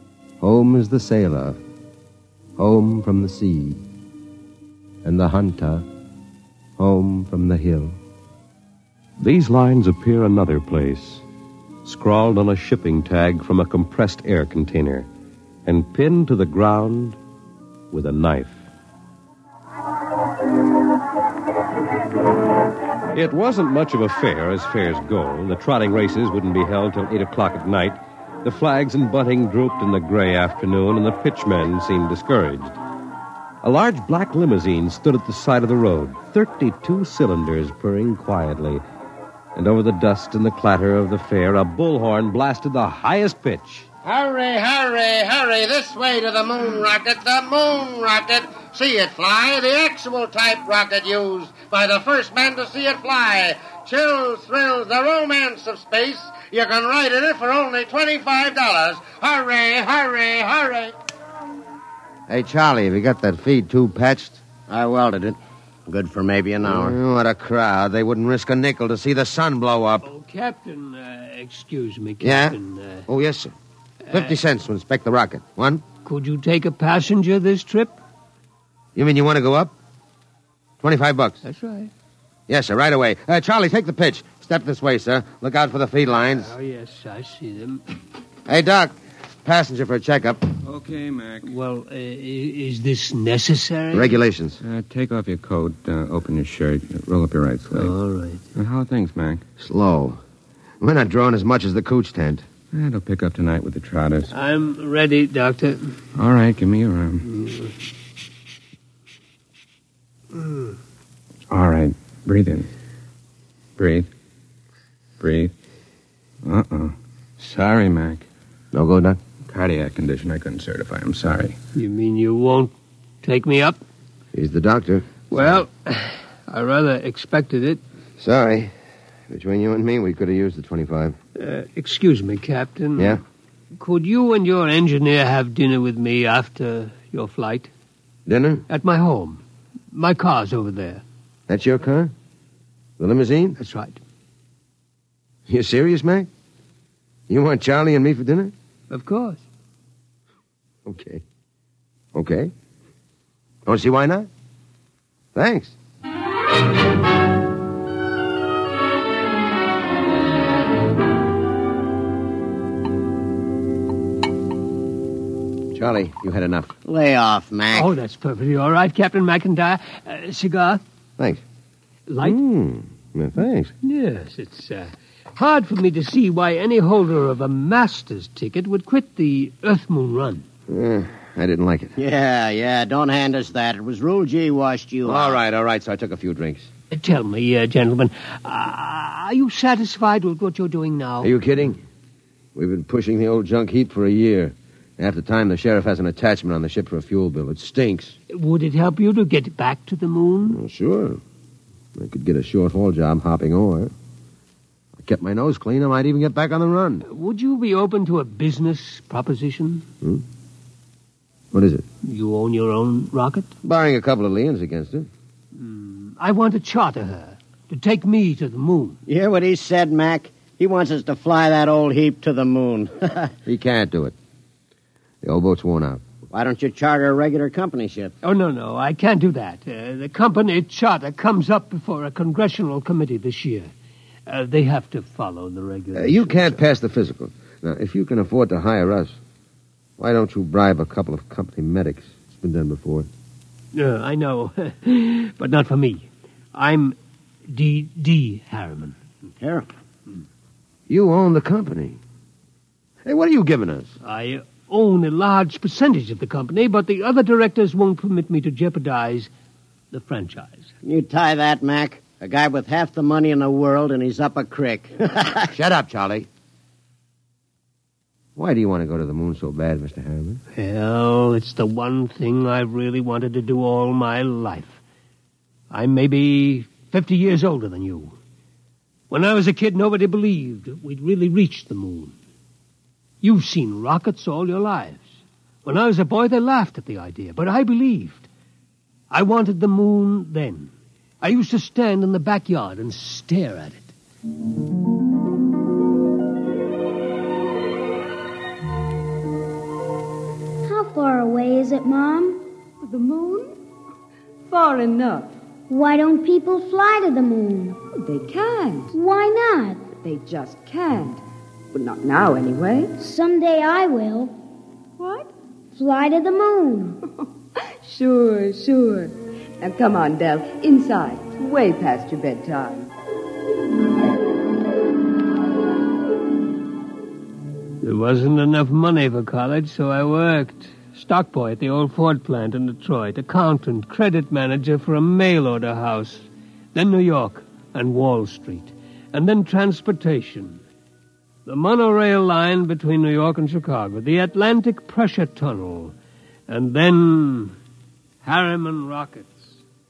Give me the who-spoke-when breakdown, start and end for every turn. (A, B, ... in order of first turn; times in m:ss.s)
0:00.4-0:01.6 A
0:02.6-0:03.8 A
0:05.0-0:05.8 A
0:06.8-0:08.0 A
0:09.2-0:11.2 B
0:11.8-0:15.1 B
0:15.6-0:17.2 B
0:17.9-0:18.6 B
0:23.1-0:32.8 B
0:33.6-0:38.8 B
0:39.5-0:43.9 B
0:44.0-1:00.9 C
1:02.3-1:04.4 A
1:04.7-1:07.0 C
1:06.6-1:10.0 A
1:10.0-1:13.0 D
1:12.2-1:13.5 A
1:14.1-1:15.8 A
1:16.0-1:18.0 D
1:19.0-1:19.7 A
1:20.8-1:21.4 A
1:21.4-1:21.9 D
1:22.5-1:26.5 A
1:26.2-1:27.8 D
1:28.5-1:30.5 A
1:30.6-1:31.5 E
1:31.4-1:34.2 D
1:33.9-1:34.6 A
1:34.6-1:37.9 E
1:37.7-1:38.4 D
1:38.5-1:39.4 E
1:39.6-1:40.2 A
1:40.8-1:42.4 A
1:42.7-1:44.3 E
1:44.3-1:45.9 D
1:46.2-1:47.3 E
1:47.3-1:47.7 D
1:50.4-1:50.6 D
1:51.5-1:52.7 E
1:53.8-1:54.1 E
1:55.2-1:55.5 E
1:56.4-1:58.2 E
1:58.7-1:59.2 A
1:59.5-2:01.6 E
2:01.7-2:03.8 D
2:04.3-2:05.6 A
2:05.3-2:07.8 D
2:08.2-2:08.7 A
2:09.3-2:11.2 A
2:11.4-2:13.2 D
2:13.0-2:13.2 A
2:13.8-2:17.7 D
2:18.3-2:18.6 A
2:18.7-2:19.4 D
2:19.9-2:21.0 D
2:21.5-2:22.1 A
2:23.0-2:23.6 A
2:23.6-2:24.0 D
2:25.5-2:26.3 A
2:27.3-2:28.5 A
2:28.9-2:29.4 D
2:30.8-2:31.2 A
2:32.1-2:32.5 A
2:33.6-2:34.3 A
2:35.3-2:35.7 A
2:45.7-2:46.7 A
2:46.8-2:47.9 C
2:47.7-2:50.8 D
2:52.1-2:52.4 D
2:52.2-2:53.7 A
2:53.8-3:00.4 D
3:00.7-3:02.0 A
3:02.0-3:05.4 C
3:05.0-3:06.7 A
3:06.9-3:11.3 D
3:11.2-3:11.8 A
3:12.6-3:18.2 A
3:18.3-3:20.6 D
3:20.5-3:21.2 A
3:21.9-3:23.9 A
3:25.0-3:27.0 A
3:27.0-3:29.8 D
3:31.5-3:31.8 A
3:32.0-3:33.5 D
3:33.6-3:35.1 A
3:35.5-3:39.0 D
3:39.1-3:43.3 C
3:43.4-3:44.1 A
3:45.2-3:46.0 A
3:46.3-3:48.1 C
3:48.2-3:53.7 D
3:54.3-3:56.6 D
3:55.9-3:59.2 A
4:00.0-4:03.1 A
4:03.7-4:07.0 D
4:07.5-4:09.0 D
4:09.4-4:09.7 C
4:10.9-4:12.0 A
4:13.0-4:13.9 A
4:14.0-4:19.3 D
4:19.9-4:20.7 D
4:20.8-4:25.5 C
4:25.5-4:26.3 A
4:28.4-4:30.4 A
4:30.5-4:34.8 D
4:35.7-4:38.1 D
4:39.1-4:42.1 D
4:43.2-4:45.1 D
4:45.6-4:48.3 D
4:49.1-4:53.9 D
5:00.6-5:02.4 F
5:02.8-5:03.6 G
5:04.5-5:05.3 G
5:05.7-5:07.8 F
5:08.0-5:08.9 G
5:08.9-5:09.9 F
5:09.9-5:11.2 G
5:11.7-5:12.9 G
5:13.0-5:14.3 F
5:15.0-5:15.3 G
5:15.8-5:17.0 F
5:17.8-5:22.9 G
5:27.8-5:40.6 D
5:41.4-5:45.9 D
5:46.5-5:47.6 D
5:48.2-5:49.6 D